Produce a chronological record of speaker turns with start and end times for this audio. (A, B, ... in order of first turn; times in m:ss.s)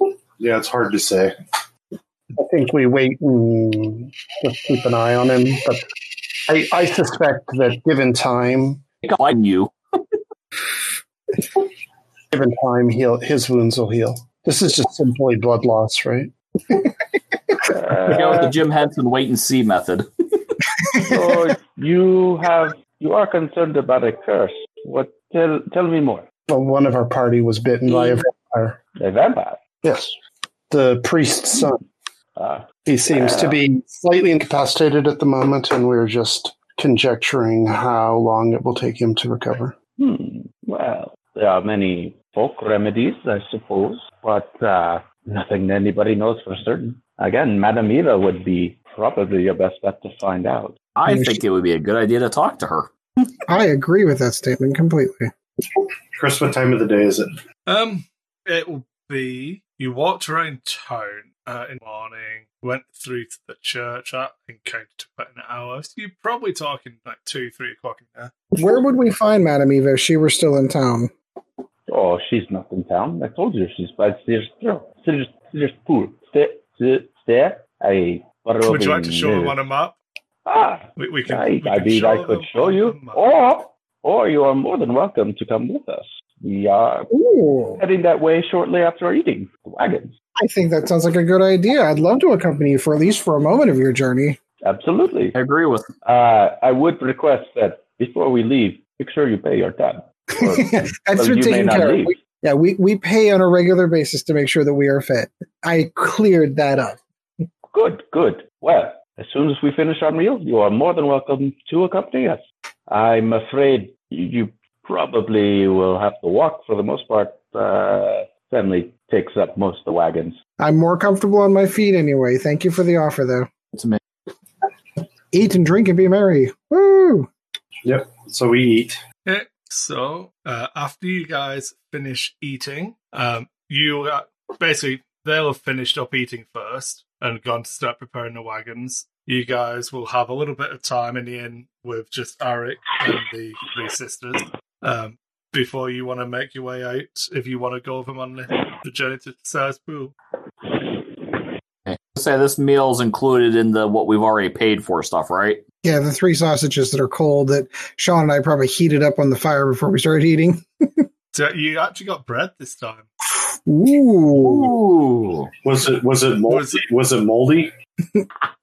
0:00.4-0:01.4 A
0:02.4-0:05.8 B
0:06.5-0:08.8 B
0:09.0-0:09.7 C
0:12.3-0:16.9 B
0:17.7-0:18.6 D
0:18.1-0:20.1 C
0:21.0-0:26.3 D
0:26.5-0:28.8 B
0:29.0-0:29.6 D
0:29.8-0:30.2 B
0:30.7-0:31.8 B
0:32.4-0:33.6 D
0:32.8-0:39.8 B
0:40.0-0:50.8 D
0:51.0-0:52.9 C
0:51.1-0:51.4 E
0:53.5-0:55.3 E
0:56.2-0:57.4 A
0:57.7-1:08.4 F
1:08.6-1:11.1 E
1:11.9-1:19.6 D
1:18.6-1:20.0 F
1:20.5-1:27.1 D
1:21.0-1:23.2 F
1:27.1-1:27.8 E
1:27.8-1:30.1 D
1:30.4-1:34.4 E
1:34.6-1:35.4 D
1:35.3-1:35.9 C
1:36.0-1:42.2 D
1:40.4-1:47.0 E
1:47.7-2:00.4 D
2:00.6-2:03.5 E
2:03.7-2:04.0 C
2:05.3-2:07.3 E
2:07.8-2:09.0 A
2:09.2-2:30.1 F
2:31.9-2:35.6 C
2:35.8-2:41.1 E
2:41.3-2:43.1 F
2:43.5-2:44.7 E
2:44.4-2:45.5 C
2:45.6-2:47.7 A
2:46.5-2:46.8 F